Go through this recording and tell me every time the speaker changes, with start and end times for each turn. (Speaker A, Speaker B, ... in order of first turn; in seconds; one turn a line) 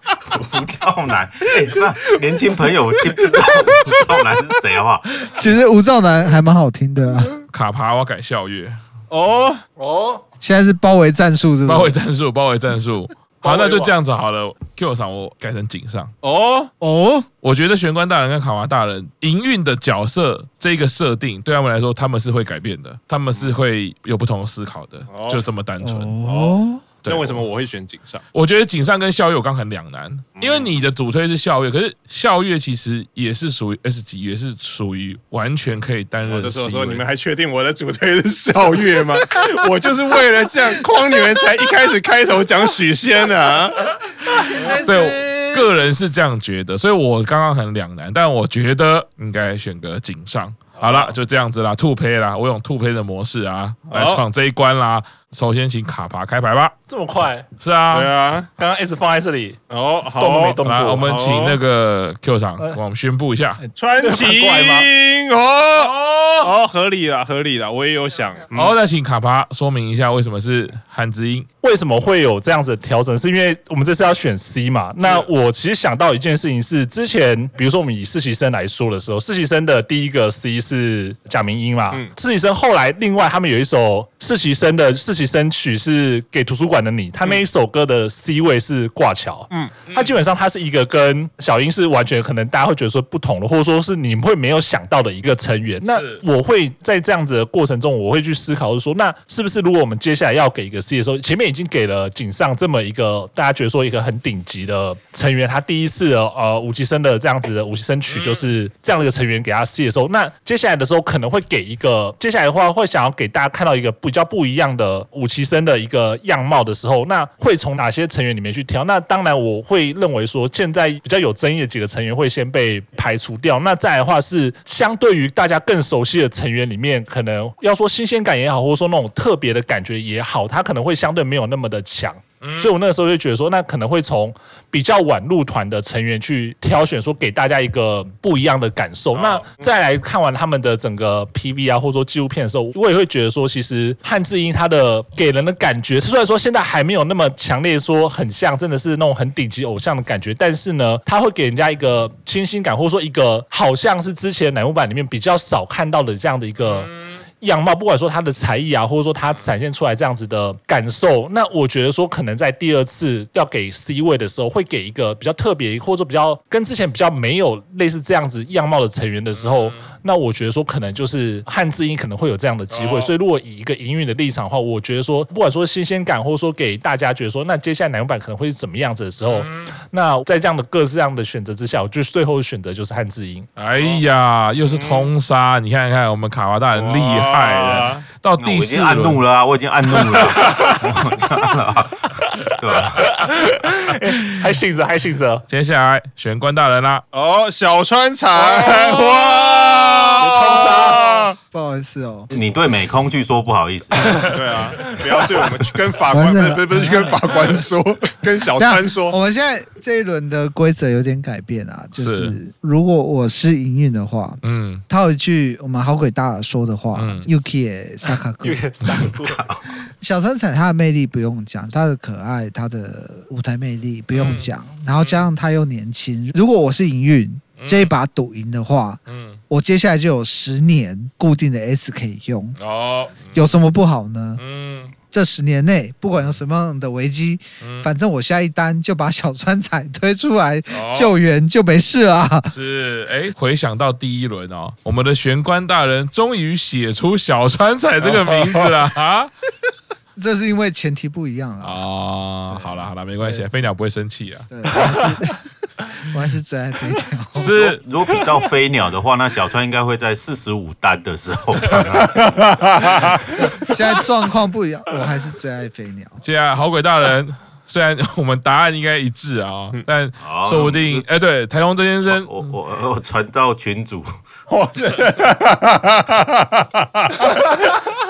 Speaker A: 0.2-5.1
Speaker B: 5.3-7.4
Speaker C: 7.5-8.8
Speaker D: 9.1-9.6
Speaker E: 9.8-10.2
Speaker B: 10.4-12.0
Speaker C: 11.7-16.1
Speaker E: 13.5-13.8
Speaker D: 16.2-16.7
Speaker B: 16.8-17.3
Speaker C: 17.4-26.1
Speaker D: 25.1-25.4
Speaker B: 25.8-26.8
Speaker D: 26.2-28.2
Speaker C: 27.0-27.4
Speaker C: 28.3-37.0
Speaker D: 30.4-30.7
Speaker D: 36.3-43.9
Speaker B: 44.2-45.7
Speaker C: 44.8-56.8
Speaker D: 50.8-51.1
Speaker D: 53.9-54.2
Speaker E: 56.9-57.5
Speaker C: 57.6-58.1
Speaker D: 57.9-58.5
Speaker E: 58.6-59.6
Speaker D: 59.7-61.6
Speaker E: 60.2-61.1
Speaker C: 60.6-63.6
Speaker E: 63.6-64.9
Speaker D: 63.8-68.8
Speaker C: 65.8-66.5
Speaker C: 68.5-71.5
Speaker E: 71.6-183.5
Speaker D: 75.0-75.3
Speaker D: 89.5-89.8
Speaker C: 95.8-96.2
Speaker C: 108.1-108.5
Speaker C: 132.4-132.7
Speaker C: 139.1-139.5
Speaker C: 156.7-157.2
Speaker C: 169.3-169.9
Speaker C: 172.7-173.1
Speaker C: 179.3-179.7
Speaker C: 183.6-189.2
Speaker D: 183.8-184.0
Speaker D: 184.7-185.1
Speaker D: 186.7-188.1
Speaker A: 188.4-193.2
Speaker C: 190.2-190.8
Speaker E: 193.1-195.5
Speaker C: 195.5-197.0
Speaker D: 197.1-201.4
Speaker E: 198.4-199.0
Speaker B: 198.7-199.1
Speaker E: 200.2-201.1
Speaker B: 200.2-202.3
Speaker A: 202.3-204.3
Speaker D: 204.2-209.2
Speaker B: 206.1-207.5
Speaker B: 208.6-218.7
Speaker C: 212.0-212.4
Speaker C: 214.4-214.8
Speaker C: 216.9-217.3
Speaker E: 218.4-219.4
Speaker A: 219.2-219.7
Speaker B: 220.0-232.6
Speaker C: 224.1-225.2
Speaker C: 227.6-227.9
Speaker C: 229.1-229.4
Speaker C: 232.6-233.5
Speaker B: 233.3-234.4
Speaker C: 234.4-234.9
Speaker B: 235.1-242.5
Speaker C: 237.6-237.9
Speaker C: 240.7-241.1
Speaker C: 242.5-249.3
Speaker B: 250.2-251.8
Speaker C: 251.6-254.5
Speaker B: 252.5-253.4
Speaker B: 254.5-257.6
Speaker C: 257.4-257.8
Speaker A: 257.4-262.8
Speaker D: 262.3-263.2
Speaker B: 263.3-266.2
Speaker C: 266.2-272.5
Speaker A: 270.2-271.1
Speaker A: 272.1-274.2
Speaker D: 274.5-277.4